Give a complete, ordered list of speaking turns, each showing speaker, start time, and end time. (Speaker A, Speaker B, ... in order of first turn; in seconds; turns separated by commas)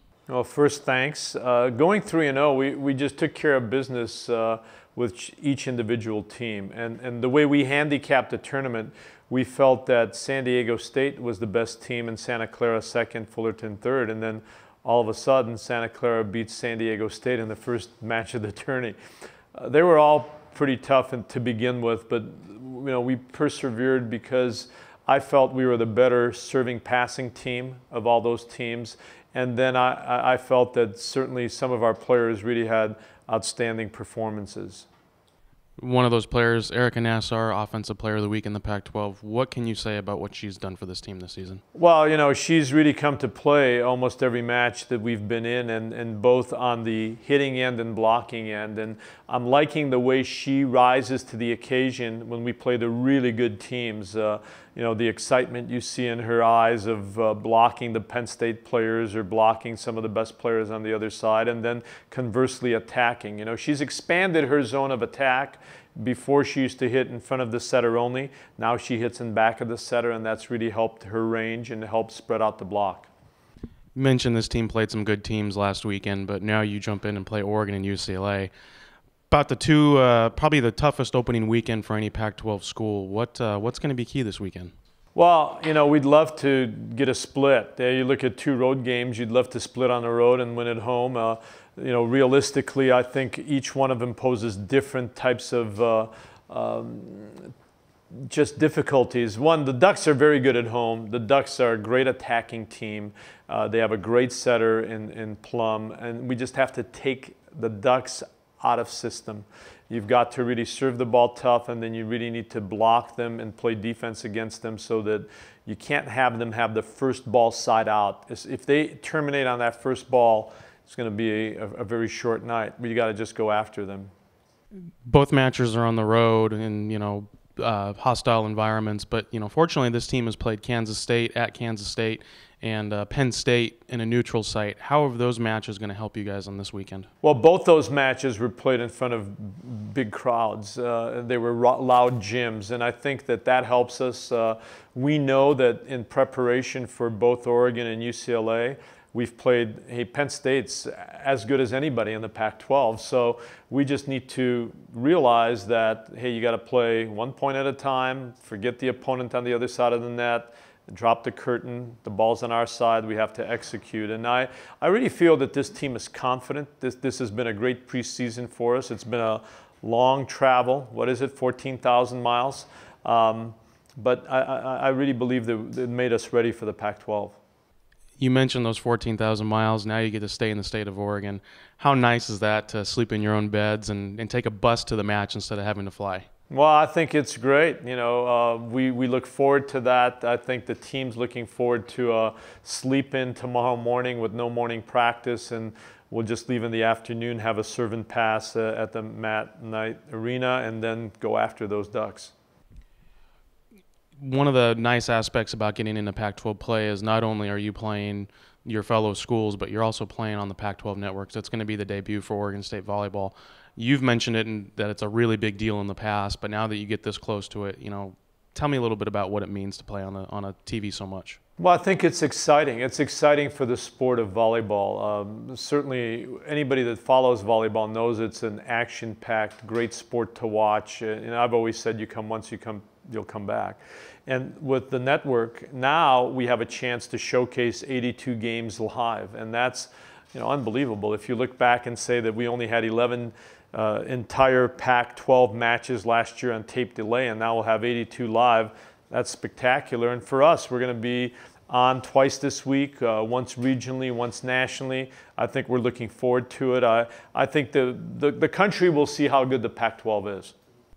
Speaker A: 0.3-19.0, Speaker A: 19.5-34.9, Speaker B: 35.8-41.6, Speaker A: 41.8-73.1, Speaker B: 74.0-78.5, Speaker B: 79.3-84.7, Speaker A: 85.2-97.5, Speaker A: 98.1-124.1, Speaker B: 125.1-137.1, Speaker A: 137.2-177.4, Speaker B: 178.2-186.3, Speaker A: 186.5-202.3, Speaker B: 204.2-221.4, Speaker A: 221.6-260.6